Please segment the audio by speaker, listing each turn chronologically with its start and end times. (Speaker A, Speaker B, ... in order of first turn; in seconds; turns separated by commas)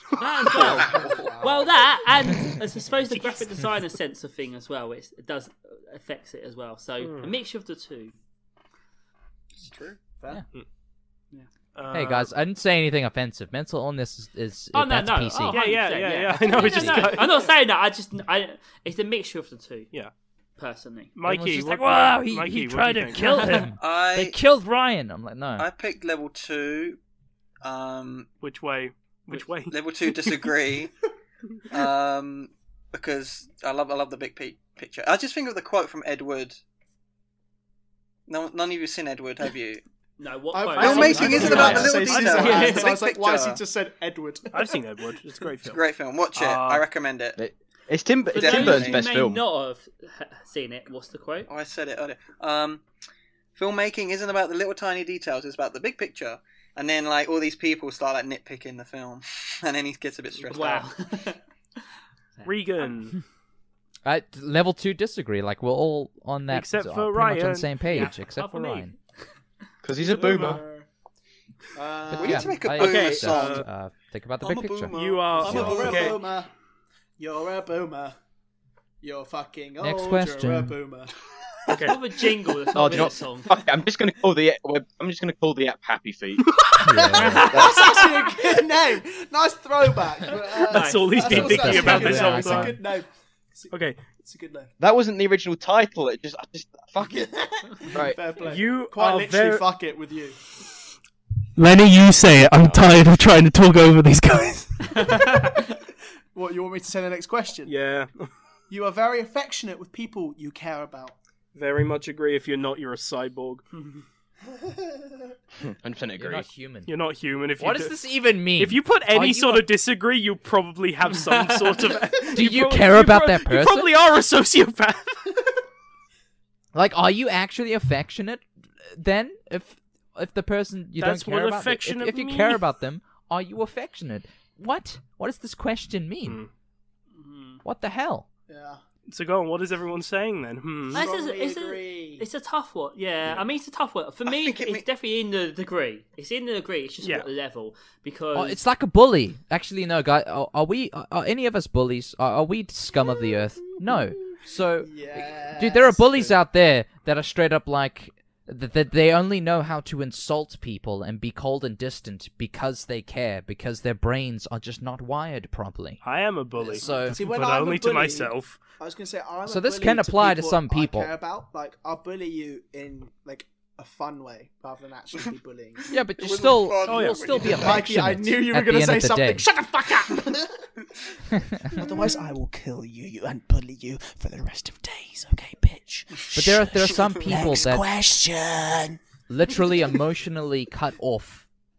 Speaker A: 0.1-8.1, Speaker B: 0.5-1.2, Speaker C: 0.6-1.8, Speaker D: 7.0-7.3, Speaker B: 9.6-10.0, Speaker D: 11.7-12.3, Speaker E: 11.9-15.6, Speaker A: 14.7-19.9, Speaker D: 15.5-17.4, Speaker E: 16.6-17.1, Speaker A: 20.6-21.1, Speaker D: 21.1-23.2, Speaker E: 21.2-25.7, Speaker A: 23.2-23.7, Speaker B: 23.8-24.4, Speaker B: 25.6-27.0, Speaker B: 27.6-28.3, Speaker D: 28.4-30.3, Speaker B: 29.7-30.9, Speaker B: 31.7-36.6, Speaker B: 38.3-39.8, Speaker A: 40.2-42.9, Speaker C: 40.5-44.8, Speaker B: 40.8-43.6, Speaker D: 41.2-41.7, Speaker F: 41.5-41.9, Speaker D: 44.5-45.8, Speaker B: 45.6-47.4, Speaker D: 46.3-46.8, Speaker F: 47.4-49.4, Speaker A: 48.3-51.5, Speaker B: 48.3-49.0, Speaker B: 51.5-52.8, Speaker B: 53.5-60.9, Speaker A: 60.5-61.4, Speaker A: 62.4-62.9, Speaker D: 62.4-63.2, Speaker E: 64.0-68.9, Speaker D: 66.5-68.0, Speaker A: 67.8-69.0, Speaker F: 69.8-70.6, Speaker C: 70.0-70.9, Speaker D: 70.1-70.6, Speaker C: 71.7-72.7, Speaker E: 72.1-74.9, Speaker B: 72.1-73.6, Speaker D: 72.8-73.7, Speaker B: 74.4-76.2, Speaker D: 74.9-76.2, Speaker C: 75.4-76.5, Speaker C: 77.2-78.1, Speaker C: 79.0-83.1, Speaker E: 79.8-80.8, Speaker D: 81.7-82.0, Speaker A: 81.8-83.5, Speaker F: 82.7-86.6, Speaker C: 86.7-94.7, Speaker E: 86.8-87.6, Speaker A: 87.1-88.4, Speaker F: 87.4-87.8, Speaker A: 90.5-92.3, Speaker D: 90.7-92.7, Speaker E: 91.2-92.8, Speaker D: 93.7-94.0, Speaker F: 94.8-97.3, Speaker C: 97.0-100.4, Speaker F: 97.9-98.2, Speaker D: 98.4-99.7, Speaker D: 101.5-105.2, Speaker F: 102.6-103.0, Speaker A: 104.9-105.6, Speaker C: 106.3-107.7, Speaker D: 107.6-108.3, Speaker C: 108.7-111.1, Speaker D: 111.5-113.7, Speaker A: 113.7-114.0, Speaker C: 114.5-115.3, Speaker F: 115.6-116.5, Speaker E: 116.2-116.9, Speaker D: 116.9-118.0, Speaker E: 117.6-119.7, Speaker D: 118.6-125.4, Speaker A: 121.2-121.9, Speaker E: 122.3-123.9, Speaker E: 126.7-136.4, Speaker D: 131.0-132.6, Speaker D: 136.2-136.5, Speaker A: 137.1-137.6, Speaker E: 137.6-138.2, Speaker C: 138.5-138.8, Speaker D: 139.1-141.0, Speaker C: 140.9-142.2, Speaker A: 140.9-148.6, Speaker B: 144.2-144.8, Speaker D: 147.0-147.3, Speaker E: 148.3-166.0, Speaker C: 154.8-156.3, Speaker D: 166.0-168.6, Speaker C: 166.6-175.9, Speaker E: 166.7-167.2, Speaker E: 169.4-171.1, Speaker E: 175.9-179.4, Speaker B: 176.2-177.8, Speaker D: 176.8-177.3, Speaker C: 177.3-180.8, Speaker E: 181.3-181.8, Speaker C: 181.6-189.0, Speaker E: 186.3-187.8, Speaker E: 189.3-191.4